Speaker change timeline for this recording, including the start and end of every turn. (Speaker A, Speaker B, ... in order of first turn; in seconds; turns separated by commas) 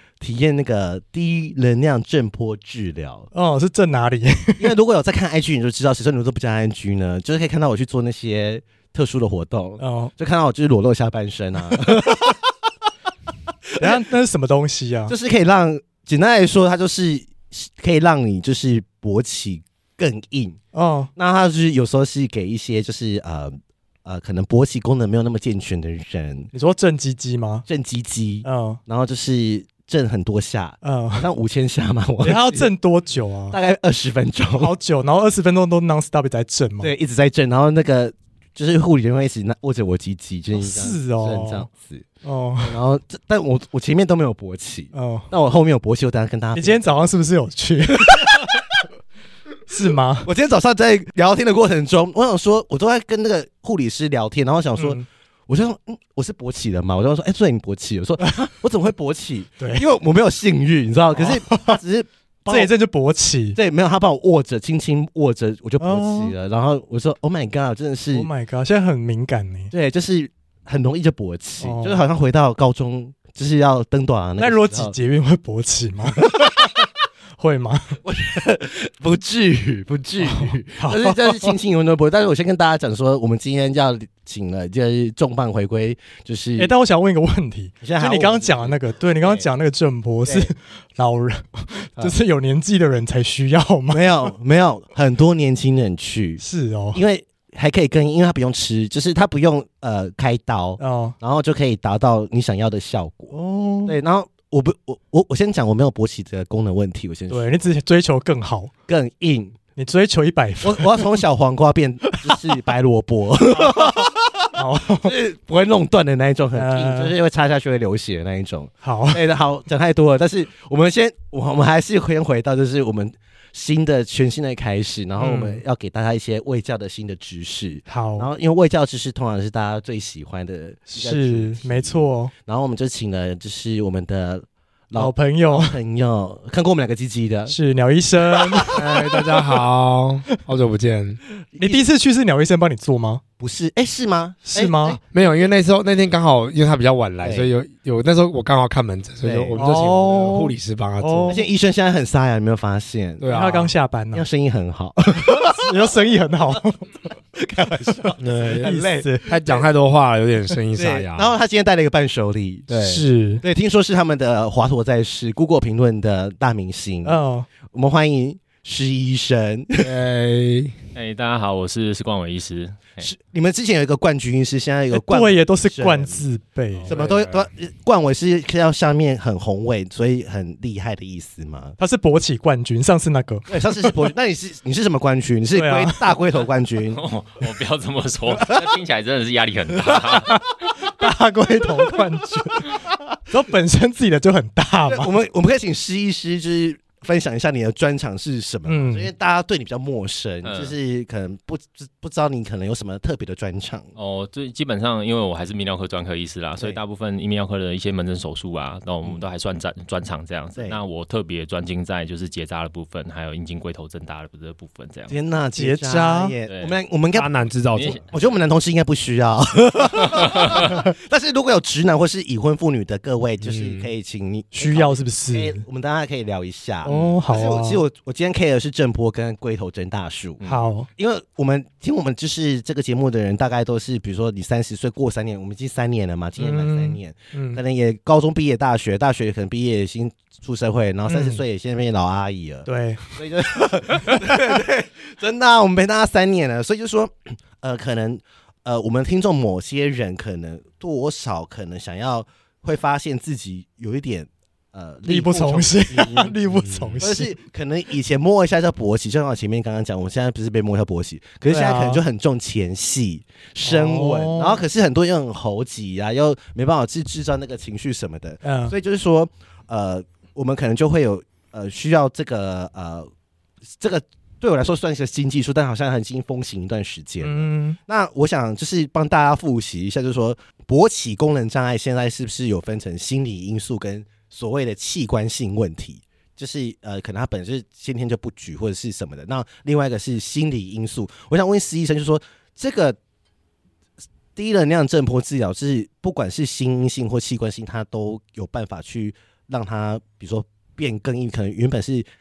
Speaker A: 0.2-3.3, Speaker B: 3.3-4.7, Speaker A: 4.6-12.4, Speaker B: 9.8-10.1, Speaker B: 13.8-15.1, Speaker A: 15.1-20.6, Speaker B: 20.7-21.1, Speaker A: 21.1-26.5, Speaker B: 26.5-27.7, Speaker A: 27.7-32.7, Speaker B: 28.4-28.8, Speaker B: 30.8-31.3, Speaker B: 32.2-33.6, Speaker A: 33.5-34.8, Speaker B: 34.6-36.9, Speaker A: 36.8-42.0, Speaker B: 40.5-41.7, Speaker B: 42.2-42.8, Speaker A: 42.6-46.8, Speaker B: 44.9-45.3, Speaker B: 46.5-48.4, Speaker A: 48.0-48.6, Speaker B: 49.7-50.3, Speaker A: 50.2-62.7, Speaker B: 54.8-55.0, Speaker B: 58.2-58.5, Speaker B: 59.6-59.8, Speaker B: 61.1-61.8, Speaker B: 62.5-63.6, Speaker A: 63.5-68.3, Speaker B: 65.8-66.3, Speaker B: 68.1-69.7, Speaker A: 69.7-74.9, Speaker B: 71.6-72.0, Speaker B: 74.4-76.4, Speaker A: 76.3-76.7, Speaker B: 77.4-78.0, Speaker A: 78.0-86.7, Speaker B: 80.2-81.6, Speaker B: 86.6-94.3, Speaker A: 87.8-89.5, Speaker A: 93.9-103.3, Speaker B: 96.4-97.0, Speaker B: 100.8-101.2, Speaker B: 103.3-104.0, Speaker A: 103.9-107.6, Speaker B: 107.3-108.7, Speaker A: 108.9-109.6, Speaker B: 109.8-111.2, Speaker A: 110.6-114.5, Speaker B: 113.6-115.2, Speaker A: 115.0-137.5, Speaker B: 116.5-117.1, Speaker B: 118.8-119.2, Speaker B: 125.2-125.6, Speaker B: 127.9-128.3, Speaker B: 130.9-132.3, Speaker B: 134.9-135.8, Speaker B: 137.5-139.0, Speaker A: 138.6-139.1, Speaker C: 138.7-141.2, Speaker A: 141.6-141.8, Speaker B: 141.6-143.2, Speaker A: 143.4-145.0, Speaker B: 144.5-145.0, Speaker C: 145.0-151.4, Speaker A: 147.2-147.5, Speaker A: 149.2-149.6, Speaker B: 149.6-151.5, Speaker A: 151.3-153.4, Speaker C: 153.2-153.7, Speaker B: 153.3-154.2, Speaker A: 154.1-155.7, Speaker B: 155.2-156.9, Speaker A: 157.4-159.7, Speaker C: 158.2-161.3, Speaker B: 158.6-159.4, Speaker A: 160.8-162.8, Speaker C: 162.7-163.0, Speaker B: 162.8-163.4, Speaker A: 163.4-169.9, Speaker B: 167.0-167.5, Speaker C: 169.8-170.8, Speaker D: 170.9-173.1, Speaker A: 173.0-176.2, Speaker B: 174.9-177.0, Speaker C: 176.8-177.5, Speaker A: 176.9-181.8, Speaker B: 181.8-183.5, Speaker A: 183.5-187.0, Speaker B: 185.5-186.2, Speaker D: 186.9-190.4, Speaker B: 190.3-195.1, Speaker A: 194.9-203.9, Speaker B: 198.7-199.1, Speaker D: 200.4-200.7, Speaker D: 203.9-215.1, Speaker A: 215.1-217.3, Speaker B: 215.6-216.3, Speaker D: 216.4-216.8, Speaker C: 217.1-218.0, Speaker D: 217.7-218.1, Speaker A: 218.0-230.4, Speaker D: 220.2-220.6, Speaker C: 223.4-223.9, Speaker B: 224.5-225.6, Speaker B: 226.8-227.8, Speaker D: 226.9-227.2, Speaker B: 230.4-230.9, Speaker A: 230.9-273.1, Speaker B: 236.4-237.6, Speaker B: 241.1-241.4, Speaker B: 242.7-243.1, Speaker B: 255.1-257.4, Speaker B: 261.5-262.0, Speaker B: 263.6-264.6, Speaker B: 268.4-268.8, Speaker A: 273.8-293.0, Speaker B: 277.2-277.8, Speaker A: 294.4-302.1